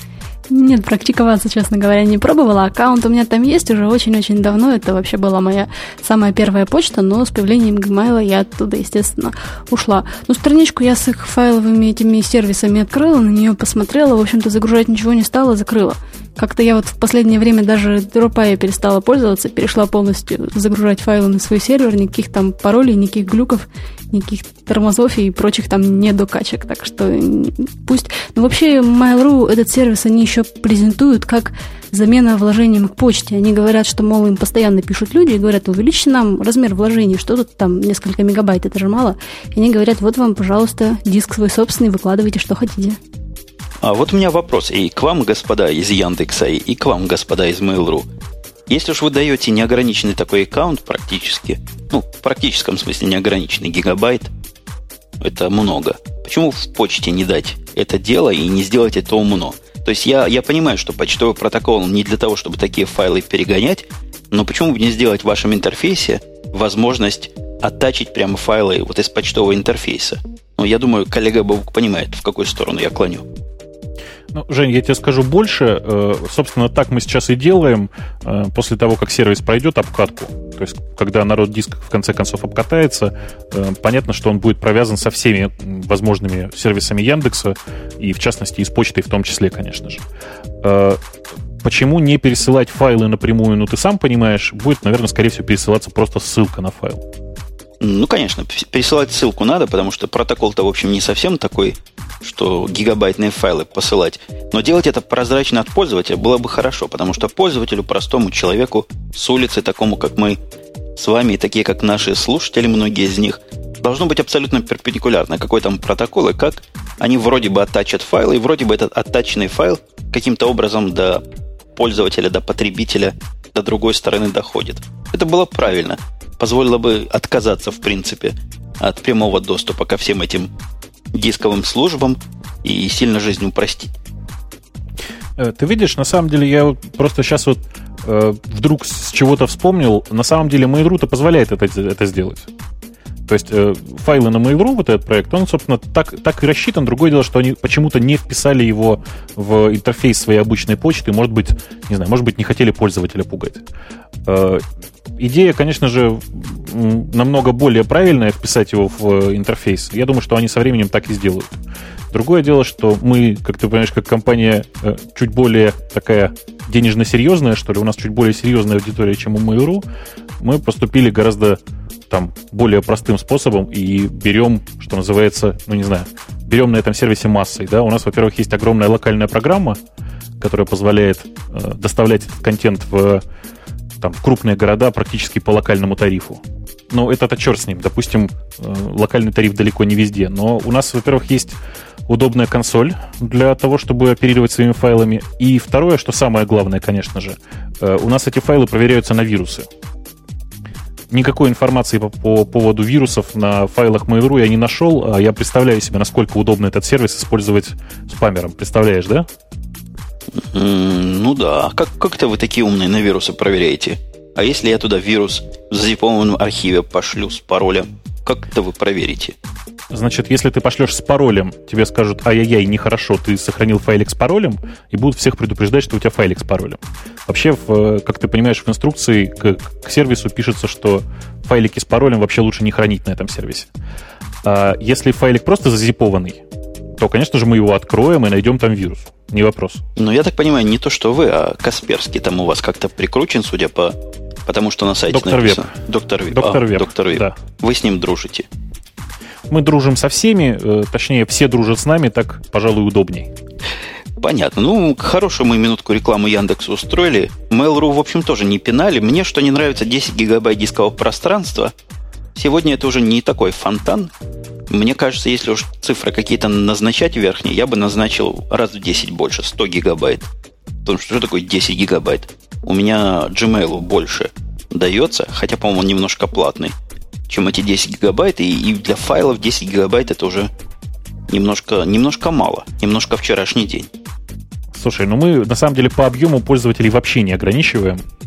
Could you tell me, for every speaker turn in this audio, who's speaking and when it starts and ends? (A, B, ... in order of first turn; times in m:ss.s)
0:00.5-0:43.0 A
0:43.8-0:48.1 B
0:48.7-0:54.3 B
0:55.2-1:13.3 B
1:14.3-1:30.0 C
1:30.6-1:31.0 C
1:31.6-1:37.0 C
1:37.8-1:50.4 B
1:51.0-2:01.2 B
2:01.8-2:10.5 B
2:11.1-2:13.9 B
2:15.4-2:22.5 C
2:23.3-2:33.6 C
2:34.2-2:34.6 C
2:35.2-2:41.6 C
2:42.1-2:49.8 C
2:50.4-2:59.8 C
3:00.4-3:03.2 C
3:04.0-3:19.7 C
3:21.1-3:29.3 C
3:30.4-3:39.4 B
3:39.9-3:53.7 C
3:54.4-3:56.4 C
3:57.0-3:59.8 C
4:00.0-4:08.5 B
4:05.1-4:05.7 C
4:06.3-4:07.4 C
4:09.5-4:13.3 C
4:14.2-4:21.7 B
4:22.4-4:24.1 B
4:24.7-4:30.3 B
4:30.8-4:36.7 B
4:37.3-4:40.5 B
4:41.3-4:43.9 B
4:44.7-4:48.0 C